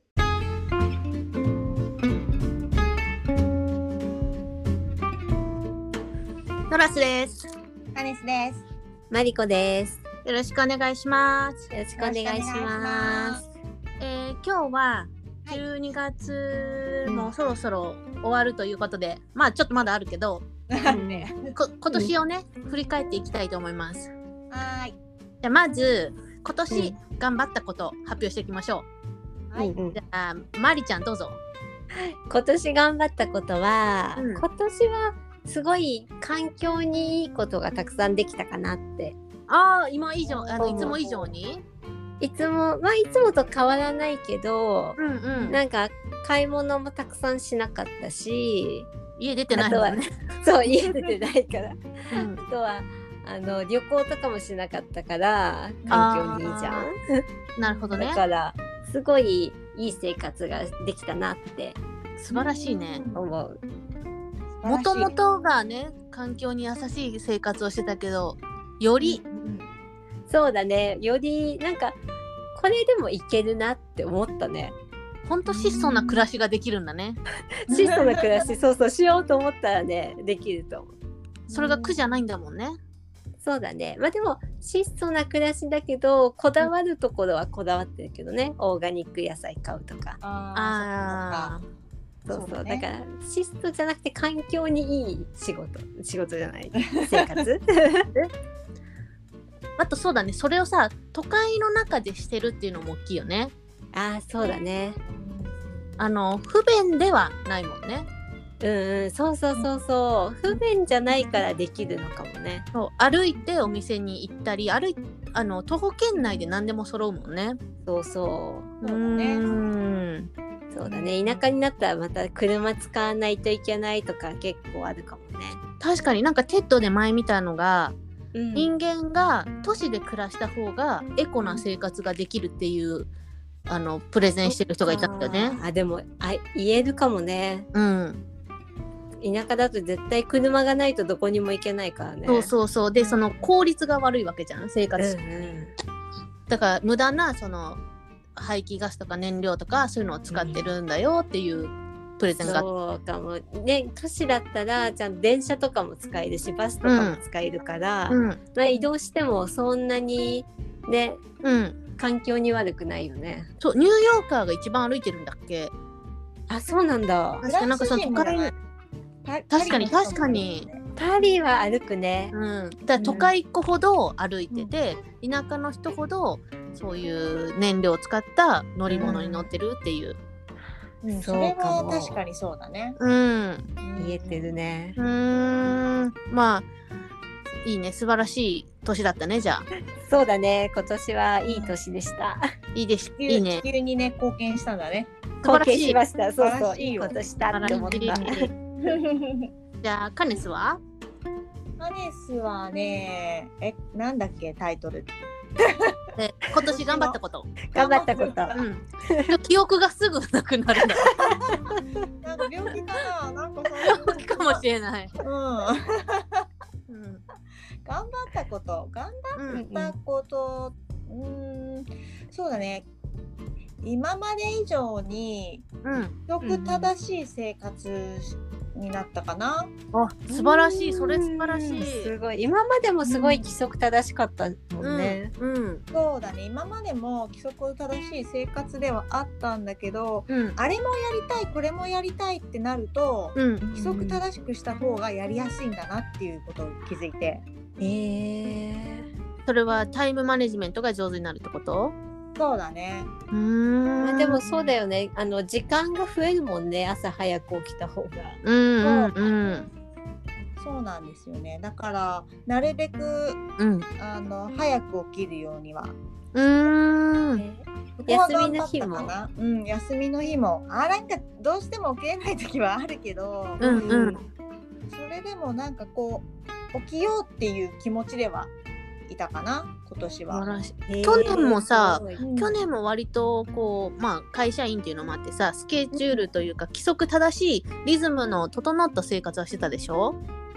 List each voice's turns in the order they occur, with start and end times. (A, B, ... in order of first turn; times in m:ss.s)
0:06.7-0:07.5 A
0:07.9-0:08.6 B
0:09.1-0:10.0 C
0:10.2-0:11.7 A
0:11.7-0:13.4 C
0:12.0-0:13.4 B
0:14.0-0:20.4 A
0:17.0-0:17.3 C
0:20.7-0:21.5 B
0:20.8-0:21.3 C
0:21.5-0:24.1 A
0:24.5-0:25.0 B
0:25.4-0:28.8 A
0:26.7-0:26.9 C
0:29.5-0:29.7 B
0:29.6-0:30.0 C
0:29.9-0:31.4 A
0:31.9-0:39.2 C
0:34.2-0:34.4 A
0:39.5-0:41.6 A
0:40.3-0:41.3 B
0:40.6-0:41.0 C
0:42.2-0:48.9 C
0:45.0-0:45.6 A
0:49.2-0:50.2 A
0:49.5-0:57.2 C
0:52.1-0:52.4 A
0:55.8-0:56.1 B
0:55.9-0:56.9 A
0:57.6-0:58.2 A
0:57.6-0:58.0 B
0:57.9-1:01.8 C
1:02.2-1:03.0 A
1:02.4-1:03.2 B
1:03.1-1:03.6 C
1:04.6-1:05.1 B
1:04.6-1:09.2 A
1:09.0-1:09.7 B
1:10.3-1:12.0 C
1:12.5-1:14.7 C
1:15.3-1:17.2 A
1:15.5-1:16.2 B
1:17.6-1:20.9 C
1:17.7-1:18.5 B
1:21.5-1:22.2 B
1:21.5-1:22.8 A
1:23.4-1:30.2 C
1:30.2-1:31.6 B
1:30.5-1:31.6 A
1:32.3-1:38.1 C
1:32.3-1:32.8 B
1:36.8-1:37.4 B
1:39.8-1:43.5 A
1:43.9-1:45.0 C
1:45.1-1:46.0 B
1:46.0-1:48.1 A
1:48.6-1:52.6 C
1:52.7-1:57.6 A
1:56.2-1:56.4 B
1:57.8-1:58.7 C
1:58.8-2:00.3 A
1:58.8-1:59.4 B
2:00.7-2:05.6 C
2:00.8-2:01.4 B
2:05.8-2:07.9 A
2:08.3-2:08.7 C
2:08.5-2:13.1 A
2:13.7-2:15.6 A
2:14.5-2:17.7 C
2:17.7-2:18.2 A
2:19.2-2:22.5 C
2:22.3-2:25.2 A
2:23.0-2:23.5 B
2:25.0-2:25.7 C
2:26.5-2:27.8 A
2:28.4-2:32.7 A
2:30.3-2:30.7 C
2:32.4-2:41.2 C
2:36.8-2:37.2 A
2:38.1-2:38.4 A
2:41.4-2:41.8 A
2:42.0-2:43.5 C
2:43.6-2:45.7 A
2:46.5-2:47.4 C
2:47.4-2:48.5 A
2:47.4-2:48.5 B
2:49.2-2:50.8 B
2:49.5-2:50.7 A
2:51.0-2:52.3 C
2:52.3-3:00.2 A
2:53.0-2:53.3 C
2:58.9-2:59.3 B
2:59.0-2:59.4 C
3:01.0-3:03.0 B
3:01.1-3:02.2 C
3:03.0-3:03.7 A
3:03.8-3:04.5 B
3:04.0-3:05.0 C
3:05.0-3:06.7 A
3:07.6-3:09.6 A
3:10.0-3:12.4 C
3:11.4-3:11.8 B
3:12.7-3:13.6 A
3:13.2-3:15.1 B
3:15.4-3:16.0 A
3:15.4-3:18.5 C
3:16.4-3:17.2 B
3:17.5-3:18.5 A
3:17.9-3:18.3 B
3:18.8-3:19.5 B
3:19.8-3:20.8 A
3:21.8-3:26.0 B
3:26.2-3:27.5 A
3:26.6-3:27.2 B
3:27.7-3:29.4 C
3:27.7-3:28.6 B
3:28.5-3:31.1 A
3:31.0-3:31.9 C
3:31.2-3:31.6 B
3:32.2-3:34.6 B
3:33.9-3:35.1 A
3:35.2-3:36.4 B
3:36.9-3:37.2 A
3:37.8-3:42.9 B
3:39.3-3:39.6 A
3:39.5-3:40.0 C
3:43.8-3:45.6 B
3:45.8-3:46.1 A
3:46.3-3:49.7 B
3:46.4-3:46.9 C
3:49.9-3:52.1 A
3:50.3-3:55.3 C
3:53.0-3:53.5 B
3:54.8-3:55.8 A
3:55.9-4:07.4 B
4:00.3-4:00.6 A
4:03.4-4:03.6 A
4:03.7-4:04.2 C
4:07.8-4:09.0 C
4:09.4-4:12.0 A
4:12.3-4:13.1 B
4:13.3-4:14.4 A
4:14.0-4:18.4 C
4:18.4-4:19.7 A
4:18.8-4:19.2 B
4:20.6-4:23.4 B
4:23.6-4:23.9 A
4:24.0-4:25.9 B
4:26.3-4:27.4 A
4:27.4-4:29.1 C
4:28.0-4:33.7 B
4:33.6-4:34.2 C
4:33.6-4:34.2 A
4:34.9-4:38.5 B
4:39.1-4:40.5 B
4:40.3-4:50.2 A
4:40.9-4:42.2 C
4:42.2-4:42.6 B
4:45.9-4:46.2 B